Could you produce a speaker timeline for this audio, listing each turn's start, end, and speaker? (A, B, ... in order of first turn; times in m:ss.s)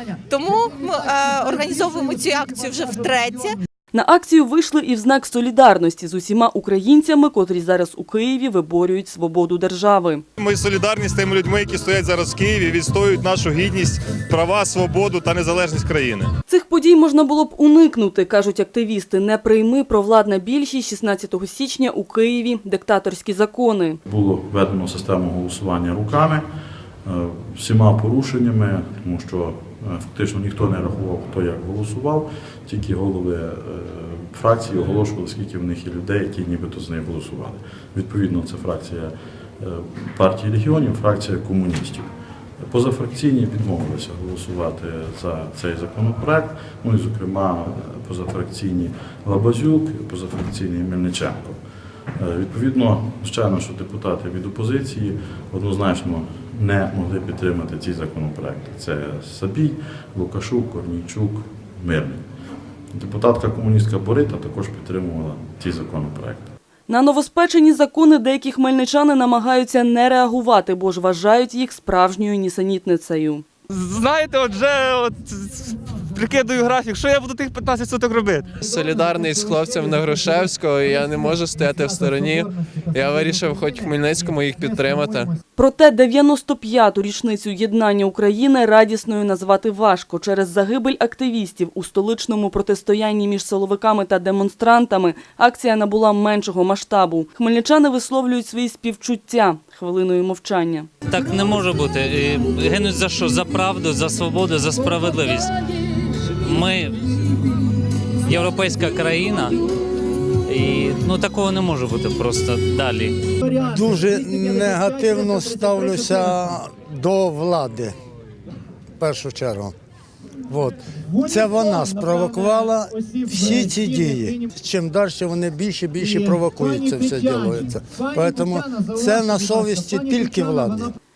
0:00.3-0:03.6 A
0:03.9-0:10.2 B
0:10.4-0:16.2 C
0:16.5-0:24.0 B
0:24.1-0:26.4 D
0:27.0-0:42.1 D
0:42.6-0:51.6 D
0:52.2-1:02.2 D
1:02.9-1:06.5 D
1:06.9-1:13.4 B
1:13.7-1:18.5 E
1:18.6-1:25.3 F
1:25.6-1:40.9 B
1:41.1-1:45.5 G
1:46.4-1:47.0 G
1:48.2-1:49.6 G
1:50.5-1:53.2 G
1:53.6-1:57.9 H
1:59.0-1:59.7 H
2:00.5-2:10.9 H